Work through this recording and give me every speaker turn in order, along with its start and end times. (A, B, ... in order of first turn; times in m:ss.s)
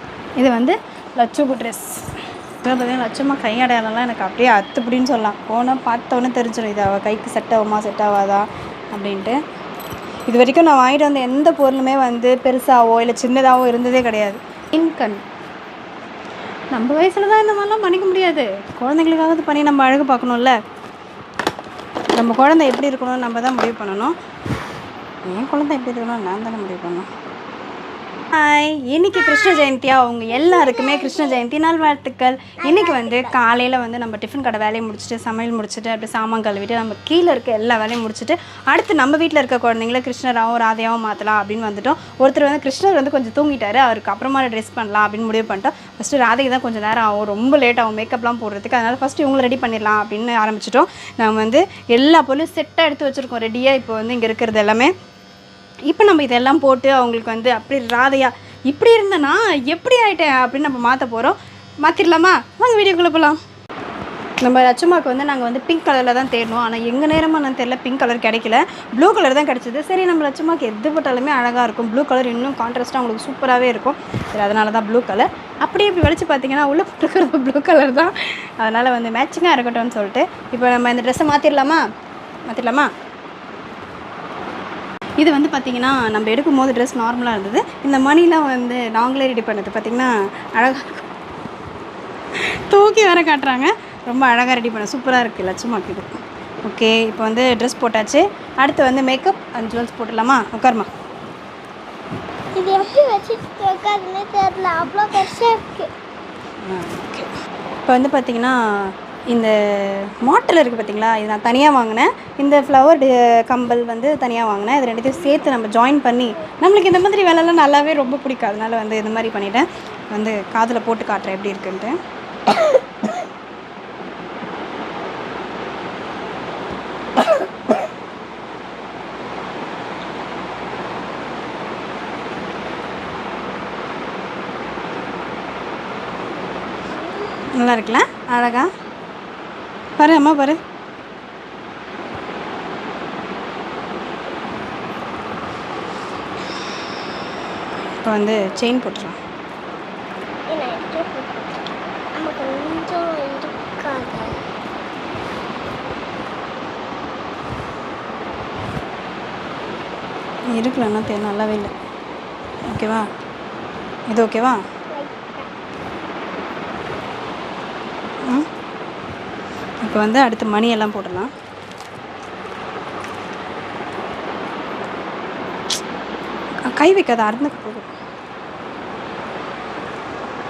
0:00.4-0:02.1 A
0:02.6-0:09.4 A
0:10.3-0:15.2 A
0:16.7-0:20.6 A
0:22.2-0:24.2 A
0:25.2-0:27.1 A
0:28.3-0:54.9 A
0:29.1-0:29.7 B
0:30.3-0:31.5 B
0:32.6-0:33.4 B
0:55.9-1:03.4 A
1:04.4-1:21.8 A
1:22.5-1:22.9 A
1:25.2-1:31.1 A
1:32.4-1:36.1 A
1:36.6-1:40.9 A
1:42.6-1:45.9 B
1:46.6-1:47.3 A
1:47.9-2:02.0 A
2:17.5-2:18.7 A
2:20.0-2:20.6 A
2:28.0-2:29.2 A
2:30.5-2:34.5 B
2:40.5-2:41.7 A
2:42.7-2:43.1 A
2:44.1-2:44.6 A
2:44.9-2:45.5 B
2:49.8-2:51.3 A
2:56.6-2:57.9 A